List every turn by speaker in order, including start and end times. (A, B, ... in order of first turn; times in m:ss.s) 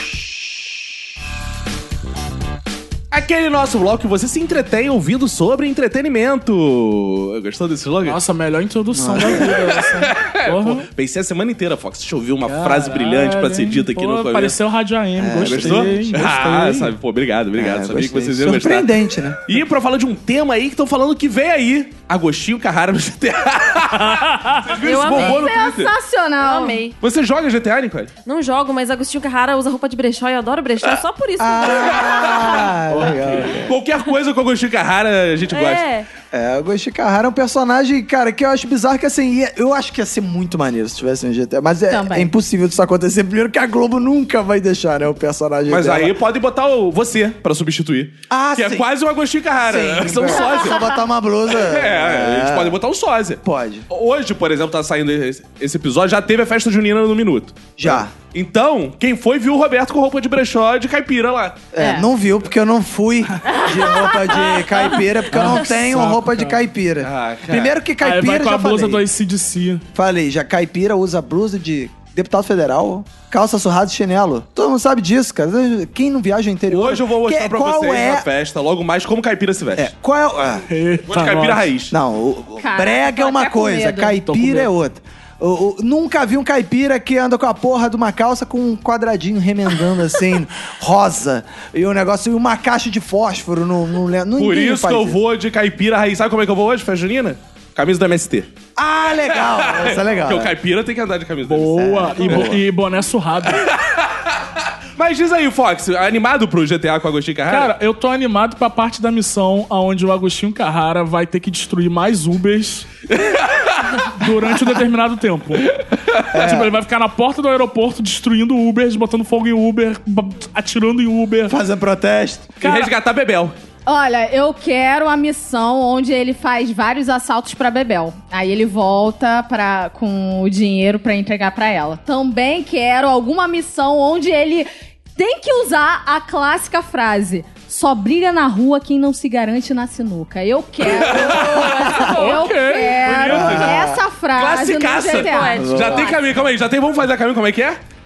0:03.1-0:08.2 A
0:08.0-0:10.9 B
0:08.9-0:09.6 C
0:09.3-0:14.6 A
0:12.4-0:16.9 B
0:15.2-0:16.0 C
0:15.4-0:18.9 A
0:17.6-0:19.4 C
0:19.5-0:25.9 A
0:24.0-0:24.8 B
0:24.8-0:25.4 D
0:24.9-0:26.8 E
0:26.4-0:27.0 D
0:27.0-0:28.1 A
0:28.2-0:32.8 D
0:31.4-0:33.7 C
0:31.7-0:32.7 A
0:32.9-0:33.6 B
0:33.5-0:35.9 A
0:35.5-0:36.1 D
0:36.3-0:46.2 C
0:41.9-0:42.3 E
0:45.7-0:50.9 A
0:48.3-0:48.9 C
0:49.6-0:52.8 C
0:51.5-1:01.6 A
0:53.4-0:53.9 C
0:57.8-0:58.1 C
1:01.7-1:09.0 C
1:01.8-1:02.1 E
1:03.5-1:04.7 E
1:05.3-1:06.6 B
1:07.0-1:07.7 A
1:08.0-1:09.8 B
1:09.9-1:18.3 C
1:16.7-1:19.9 A
1:19.8-1:20.7 C
1:20.7-1:21.7 B
1:21.1-1:21.9 A
1:21.9-1:35.2 C
1:22.6-1:24.2 E
1:24.2-1:24.7 B
1:34.4-1:38.5 A
1:38.8-1:40.5 C
1:39.2-1:42.6 A
1:41.4-1:43.7 B
1:41.7-1:42.6 C
1:43.6-1:44.4 A
1:45.0-1:47.7 A
1:47.5-1:52.9 B
1:53.1-1:54.1 A
1:54.0-1:55.8 B
1:56.3-1:56.8 C
1:56.3-2:01.6 B
2:01.5-2:02.5 C
2:02.6-2:02.9 B
2:02.6-2:03.6 A
2:03.9-2:26.2 E
2:20.8-2:22.0 A
2:21.2-2:22.1 C
2:21.6-2:23.6 B
2:22.9-2:23.8 A
2:23.3-2:24.0 C
2:24.4-2:27.8 A
2:25.1-2:26.2 D
2:25.6-2:26.1 C